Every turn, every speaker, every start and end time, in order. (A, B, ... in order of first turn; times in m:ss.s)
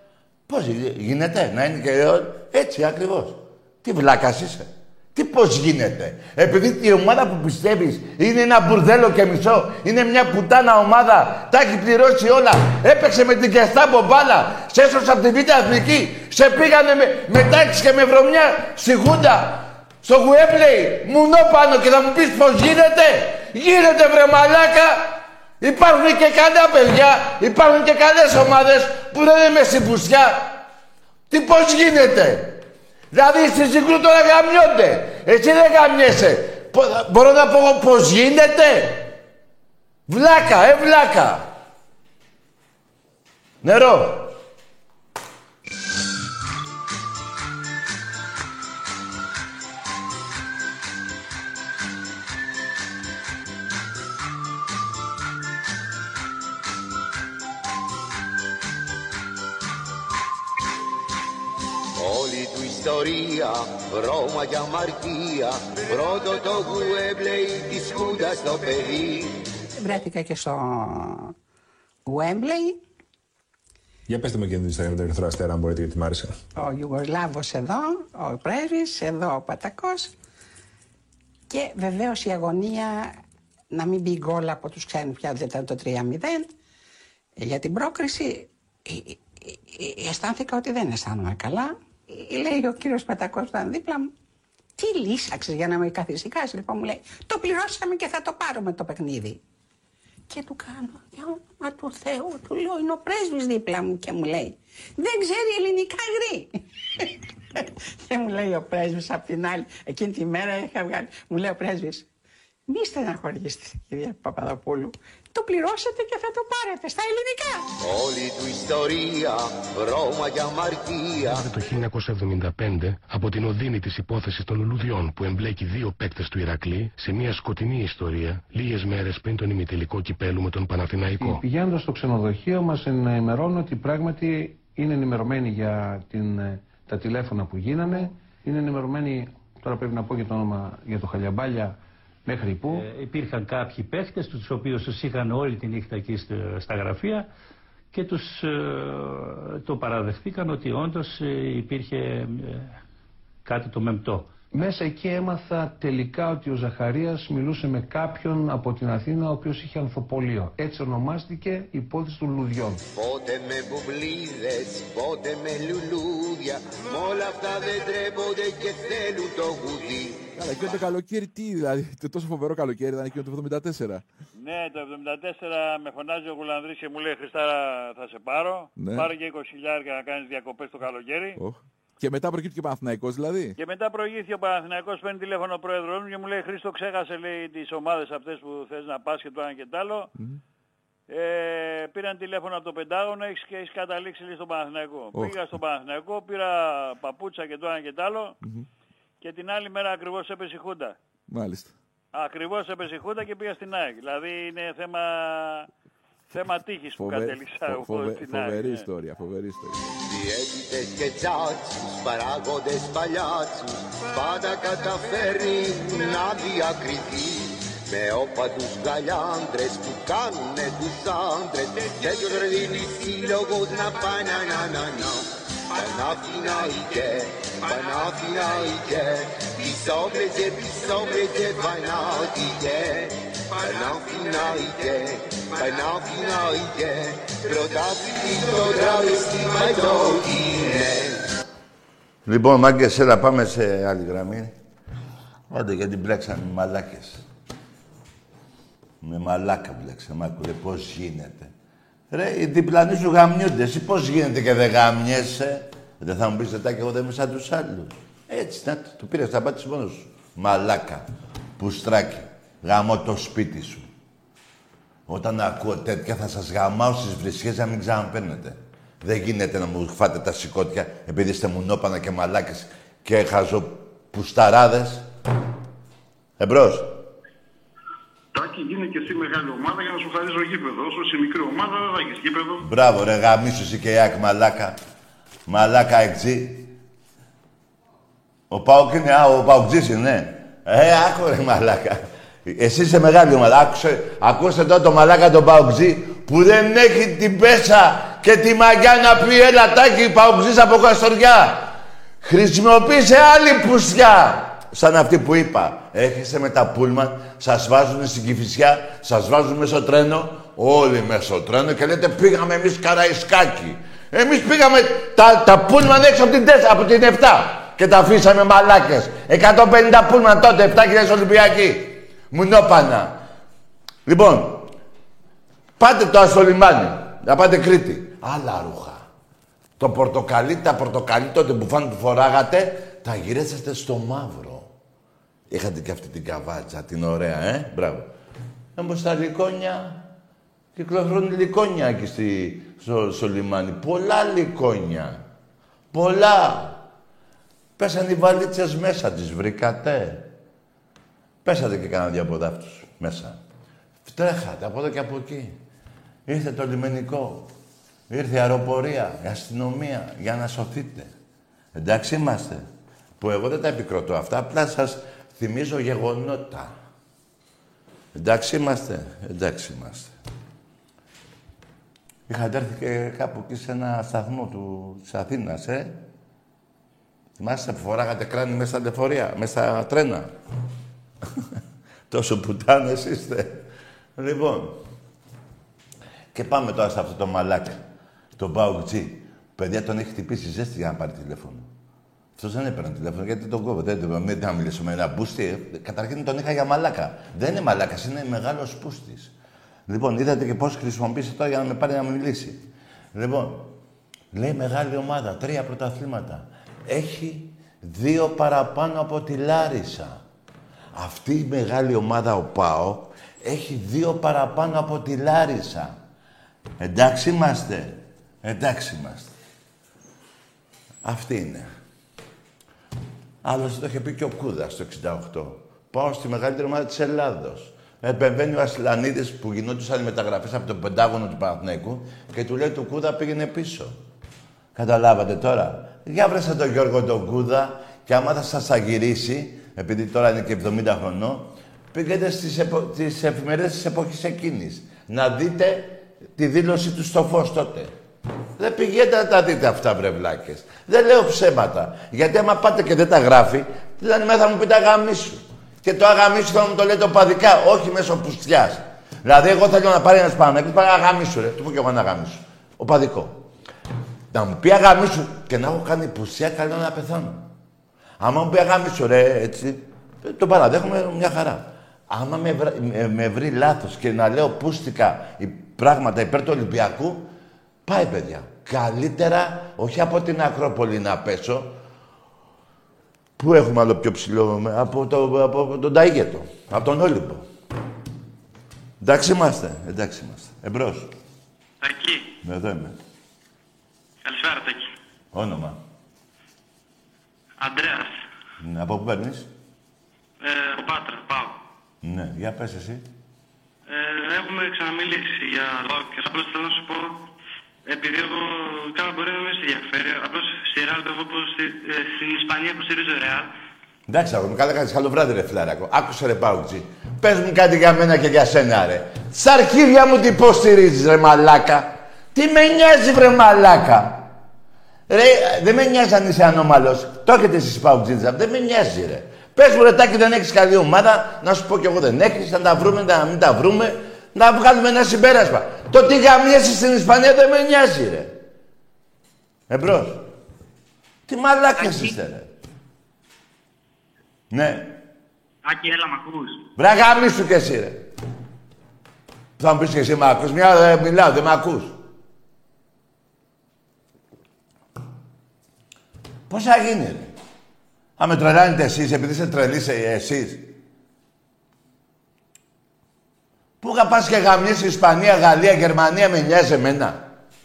0:00.5-0:30.6 A
0:31.3-0:32.6 A
0:33.1-0:39.1 A
0:40.1-0:41.5 A
0:43.6-0:44.3 A
1:02.0-1:09.4 B
1:09.8-1:11.3 C
1:12.1-1:12.8 C
1:14.1-1:16.4 D
1:16.6-1:20.2 C
1:21.5-1:23.2 C
1:23.7-1:26.5 C
1:27.4-1:34.1 C
1:34.8-1:39.4 C
1:40.3-1:52.1 C
1:52.7-1:57.7 C
1:57.8-2:01.4 B
2:01.3-2:11.4 E
2:11.2-2:22.9 F
2:22.7-2:27.3 G
2:27.9-2:32.8 G
2:33.4-2:34.3 G
2:34.5-2:42.8 F
2:42.9-2:50.2 B
2:50.4-2:54.0 H
2:54.4-3:01.4 I
2:58.8-2:59.1 H
3:01.4-3:03.6 H
3:03.6-3:10.1 I
3:10.2-3:10.4 H
3:11.1-3:18.4 I
3:15.1-3:15.4 H
3:18.4-3:18.7 H
3:19.2-3:21.0 I
3:21.3-3:21.7 H
3:22.1-3:25.7 I
3:26.3-3:28.9 I
3:27.0-3:30.0 H
3:30.1-4:01.3 B
4:02.3-4:04.5 A
4:05.5-4:07.3 A
4:09.0-4:11.5 A
4:12.1-4:21.0 A
4:21.6-4:23.9 A
4:25.1-4:35.1 A
4:36.4-4:36.9 A
4:38.3-4:42.6 J
4:42.6-4:44.8 A
4:45.5-4:46.7 A
4:48.5-5:23.2 A
5:24.1-5:24.7 A
5:25.8-5:29.0 A
5:29.8-5:34.7 A
5:35.5-5:38.1 A
5:38.8-5:40.0 A
5:40.8-5:45.2 A
5:45.9-5:46.8 A
5:47.8-5:50.3 A
5:51.4-5:53.4 A
5:54.1-5:55.6 A
5:56.3-5:57.5 A
5:58.1-6:01.1 A
6:01.8-6:02.6 A
6:03.2-6:06.7 A
6:08.2-6:10.1 A
6:12.3-6:16.0 A
6:17.4-6:20.3 A
6:22.1-6:23.6 A
6:24.2-6:24.8 A
6:26.3-6:27.8 A
6:28.4-6:31.7 A
6:32.4-6:39.3 A
6:39.9-6:42.6 A
6:43.1-6:43.7 A
6:44.3-6:50.2 A
6:51.0-6:56.0 A
6:56.8-6:59.3 A
7:01.0-7:01.7 A
7:03.4-7:14.0 A
7:14.8-7:27.9 A
7:28.6-7:43.4 A
7:44.3-7:47.5 A
7:48.2-7:57.3 A
7:57.9-8:01.8 A
8:03.4-8:07.5 A
8:09.0-8:11.1 A
8:11.8-8:12.3 K
8:12.4-8:13.0 A
8:14.2-8:14.9 K
8:15.3-8:15.8 A
8:17.6-8:18.1 K
8:18.6-8:19.5 A
8:20.4-8:21.6 K
8:22.0-8:23.1 A
8:23.9-8:27.2 K
8:27.9-8:33.5 K
8:34.1-8:44.3 A
8:45.1-8:58.4 A
8:59.7-9:00.2 A
9:01.3-9:02.5 A
9:04.5-9:04.9 A
9:06.8-9:08.0 A
9:09.6-9:12.0 A
9:16.5-9:17.3 A
9:18.2-9:20.7 A
9:23.8-9:27.2 A